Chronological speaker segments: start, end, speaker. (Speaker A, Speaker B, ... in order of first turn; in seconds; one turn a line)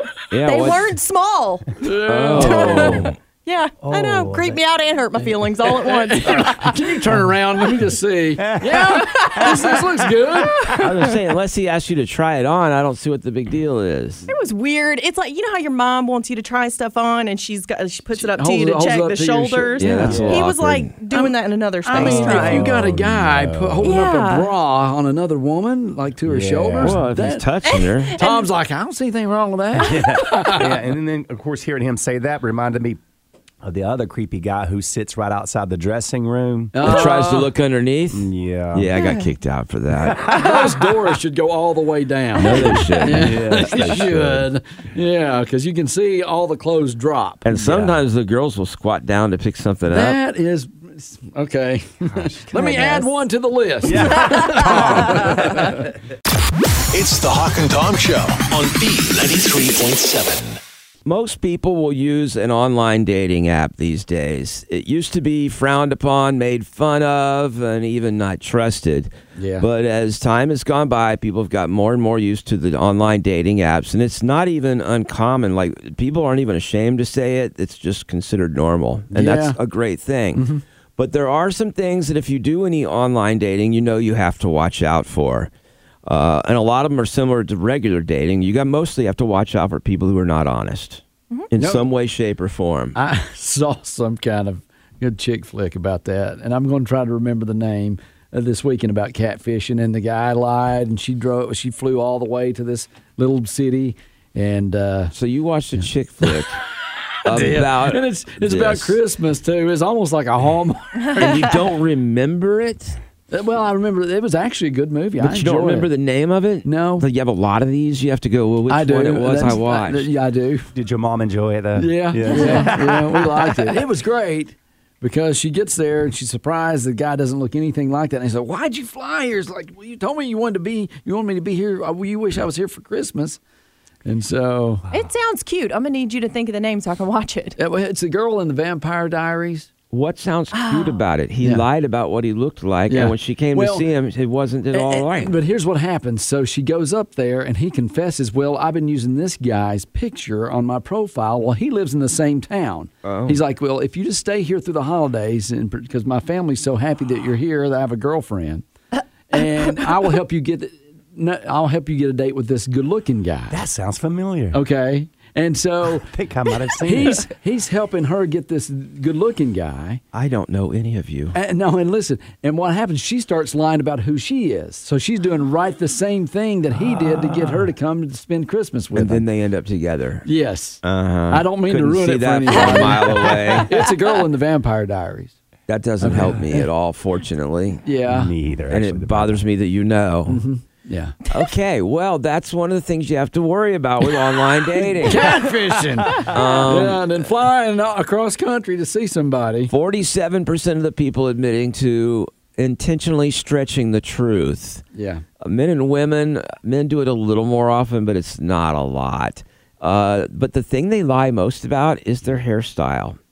Speaker A: 0.3-0.9
Speaker B: 0.5-6.8
Speaker C: 1.8-3.1
Speaker A: 2.1-3.1
Speaker D: 2.5-3.1
Speaker D: 3.8-4.6
Speaker C: 5.6-10.8
Speaker D: 8.4-10.4
Speaker B: 8.9-9.7
Speaker B: 10.7-11.1
Speaker A: 10.8-14.3
Speaker B: 14.3-22.7
Speaker C: 18.1-20.4
Speaker A: 19.8-20.9
Speaker C: 21.1-27.5
Speaker D: 21.9-24.1
Speaker B: 23.8-24.5
Speaker D: 26.2-27.0
Speaker A: 26.8-28.2
Speaker B: 27.6-28.5
Speaker C: 28.1-30.8
Speaker D: 29.8-33.0
Speaker D: 33.6-37.0
Speaker C: 36.7-37.5
Speaker A: 36.8-40.3
Speaker D: 38.1-39.0
Speaker B: 39.0-39.3
Speaker D: 40.0-40.9
Speaker C: 40.3-47.5
Speaker A: 42.4-44.5
Speaker D: 43.0-44.2
Speaker A: 47.5-50.2
Speaker D: 47.5-48.0
Speaker C: 49.9-55.9
Speaker B: 52.6-53.0
Speaker D: 53.8-55.8
Speaker E: 56.9-60.6
Speaker A: 61.0-85.5
Speaker C: 69.4-69.7
Speaker C: 79.1-79.6
Speaker C: 80.3-80.6
Speaker A: 86.0-93.0
Speaker C: 91.6-91.9
Speaker C: 93.0-105.1
Speaker A: 105.1-106.6
Speaker C: 105.8-106.5
Speaker C: 107.2-111.6
Speaker A: 107.2-109.0
Speaker A: 111.1-113.0
Speaker C: 113.3-115.9
Speaker A: 115.2-120.1
Speaker C: 116.6-117.1
Speaker C: 118.7-120.7
Speaker D: 120.7-123.8
Speaker C: 121.8-133.4
Speaker B: 122.3-122.7
Speaker C: 134.1-134.9
Speaker B: 134.9-137.6
Speaker C: 137.6-139.7
Speaker A: 139.9-145.4
Speaker B: 140.5-141.0
Speaker C: 142.9-143.9
Speaker C: 144.7-158.6
Speaker A: 153.0-153.4
Speaker C: 159.3-163.6
Speaker D: 163.5-164.6
Speaker C: 164.5-166.1
Speaker D: 166.0-167.3
Speaker C: 166.8-170.0
Speaker A: 170.1-171.4
Speaker C: 171.3-179.2
Speaker A: 178.9-180.3
Speaker C: 180.2-185.4
Speaker A: 180.8-183.7
Speaker A: 185.7-187.8
Speaker C: 186.0-186.7
Speaker C: 187.8-188.3
Speaker D: 188.1-189.4
Speaker A: 188.7-190.4
Speaker C: 190.3-191.2
Speaker A: 191.3-195.4
Speaker C: 194.8-199.7
Speaker A: 196.1-197.1
Speaker A: 199.7-204.8
Speaker C: 204.9-205.2
Speaker A: 205.4-213.2